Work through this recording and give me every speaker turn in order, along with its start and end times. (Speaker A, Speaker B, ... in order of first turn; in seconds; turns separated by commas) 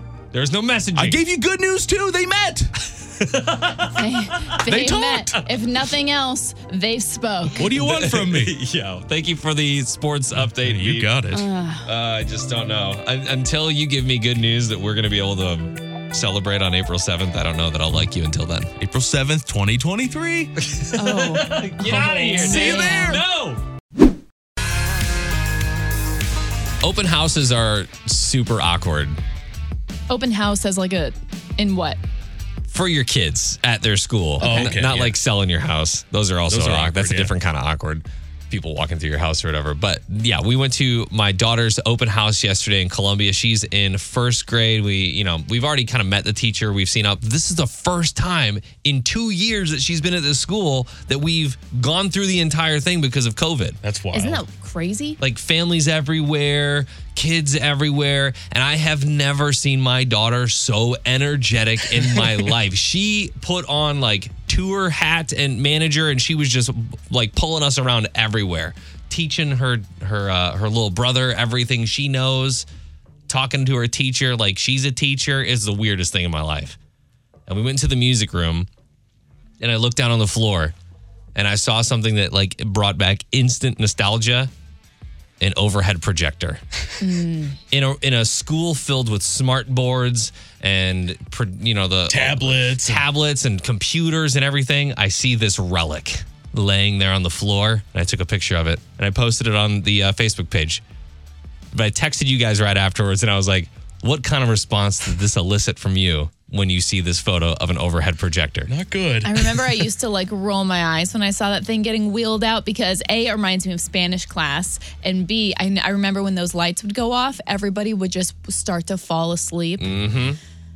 Speaker A: 0.3-1.2, Speaker B: 1.0-2.8, Speaker A: 2.9-4.8, Speaker C: 3.9-7.7, Speaker B: 4.6-5.4, Speaker B: 7.6-8.6, Speaker A: 7.6-11.2, Speaker B: 10.5-11.5, Speaker C: 11.3-11.9, Speaker A: 11.8-18.7, Speaker B: 18.8-20.5, Speaker A: 20.6-23.6, Speaker C: 21.0-23.2, Speaker B: 22.0-23.2, Speaker A: 26.8-29.2, Speaker C: 30.1-32.0, Speaker A: 32.7-53.8, Speaker C: 34.4-34.7, Speaker B: 34.4-35.2, Speaker B: 36.5-37.3, Speaker B: 53.8-54.4, Speaker C: 54.1-55.2, Speaker A: 55.2-72.7, Speaker A: 73.3-76.8, Speaker A: 77.5-78.7, Speaker A: 79.6-80.7, Speaker A: 81.3-84.5, Speaker A: 85.4-86.6, Speaker C: 87.0-87.6, Speaker A: 87.7-100.8, Speaker B: 92.1-93.0, Speaker A: 101.7-108.7, Speaker B: 108.7-109.8, Speaker C: 109.2-119.9, Speaker A: 119.8-120.4